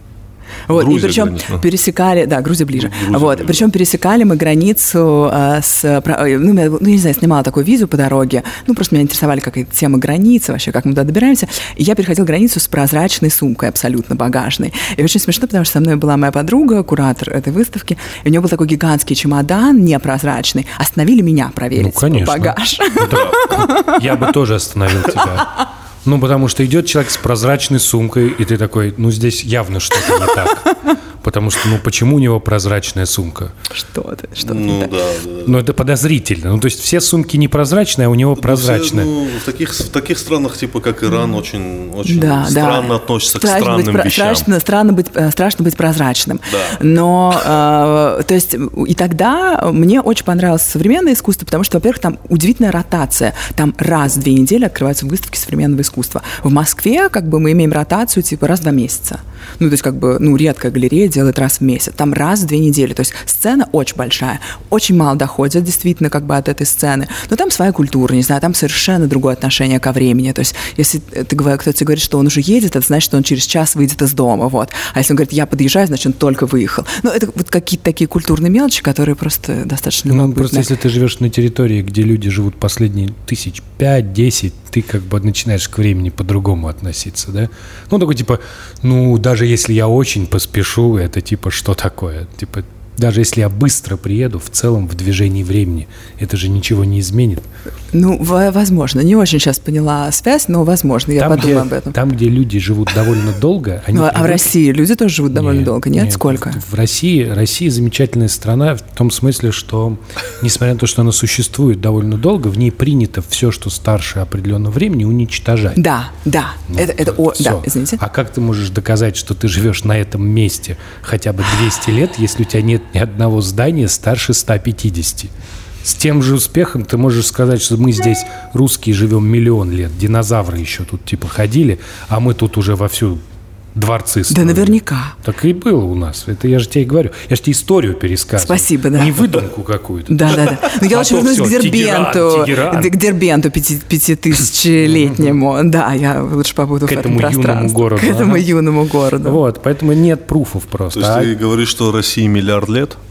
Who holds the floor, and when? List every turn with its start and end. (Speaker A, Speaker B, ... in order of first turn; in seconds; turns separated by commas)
Speaker A: 0.7-24.0, Speaker B: 0.7-1.6, Speaker B: 2.7-3.7, Speaker C: 21.8-33.5, Speaker B: 23.1-23.6, Speaker A: 33.7-34.9, Speaker B: 34.4-35.5, Speaker C: 35.5-39.1, Speaker B: 38.4-44.5, Speaker A: 41.1-41.4, Speaker A: 42.0-80.7, Speaker B: 46.5-46.8, Speaker C: 80.1-97.4, Speaker A: 97.9-101.9, Speaker C: 101.2-104.5, Speaker A: 103.9-106.6, Speaker C: 105.3-115.8, Speaker A: 115.8-118.0, Speaker C: 116.7-125.3, Speaker C: 125.8-133.2, Speaker C: 133.7-142.9, Speaker A: 134.3-135.2, Speaker A: 138.4-139.3, Speaker A: 140.1-149.4, Speaker C: 144.9-145.3, Speaker C: 146.8-148.5, Speaker C: 149.2-151.3, Speaker B: 150.9-153.0